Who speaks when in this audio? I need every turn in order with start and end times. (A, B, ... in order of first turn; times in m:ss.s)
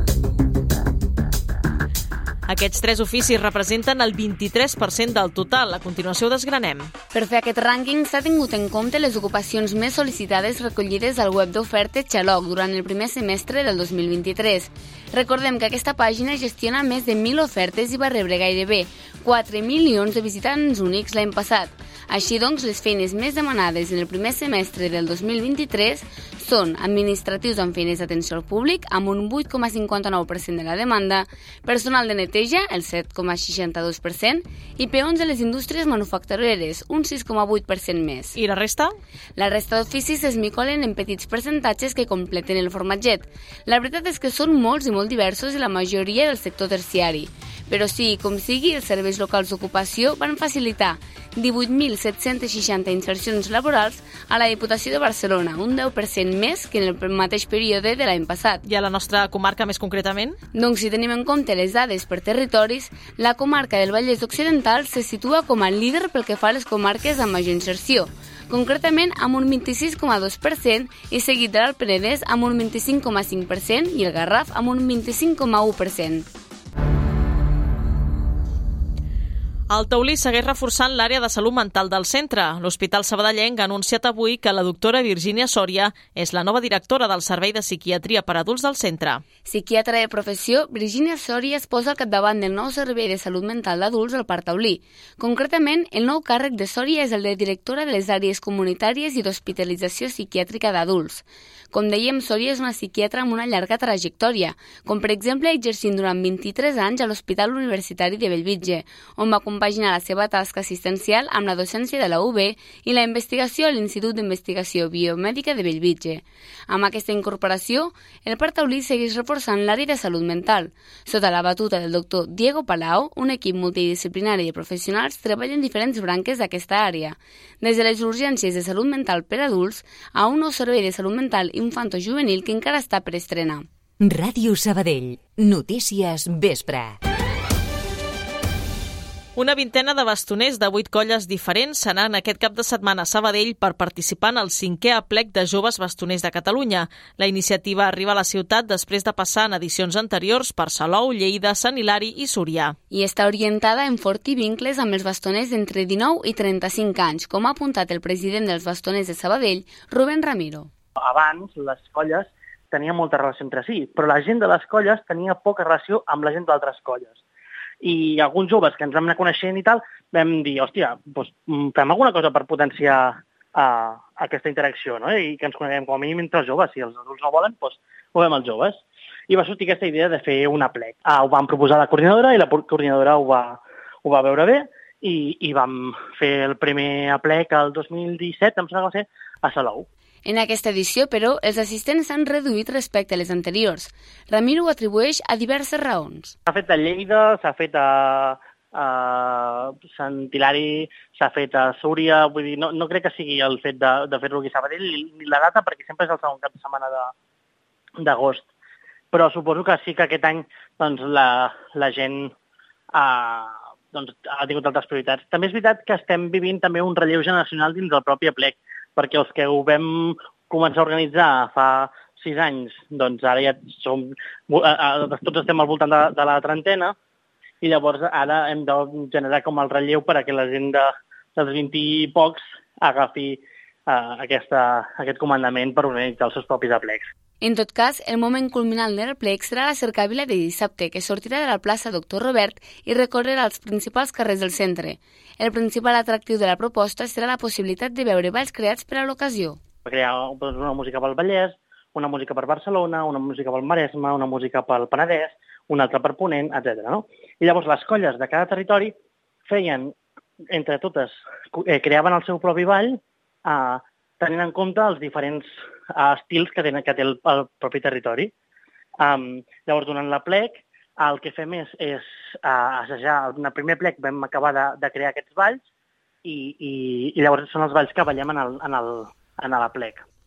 0:02.4-0:06.9 A
0:07.1-0:38.4 B
0:38.4-0:38.9 A
0:39.4-0:58.6 B
0:58.6-1:00.4 A
1:00.5-1:16.2 B
1:19.7-1:29.2 A
1:29.4-2:13.6 B
2:14.0-2:17.0 C
2:19.4-2:32.8 A
2:32.9-2:40.7 B
2:41.0-2:47.2 D
2:47.8-3:09.9 D
3:10.2-3:16.3 B
3:16.5-3:27.1 D
3:28.0-3:28.5 D
3:29.1-3:32.3 D
3:32.9-3:47.0 D
3:47.6-3:57.1 D
3:57.4-4:09.6 B
4:09.8-4:18.9 D
4:19.4-4:20.0 D
4:20.5-4:28.3 D
4:29.0-4:35.6 D
4:36.2-4:40.0 D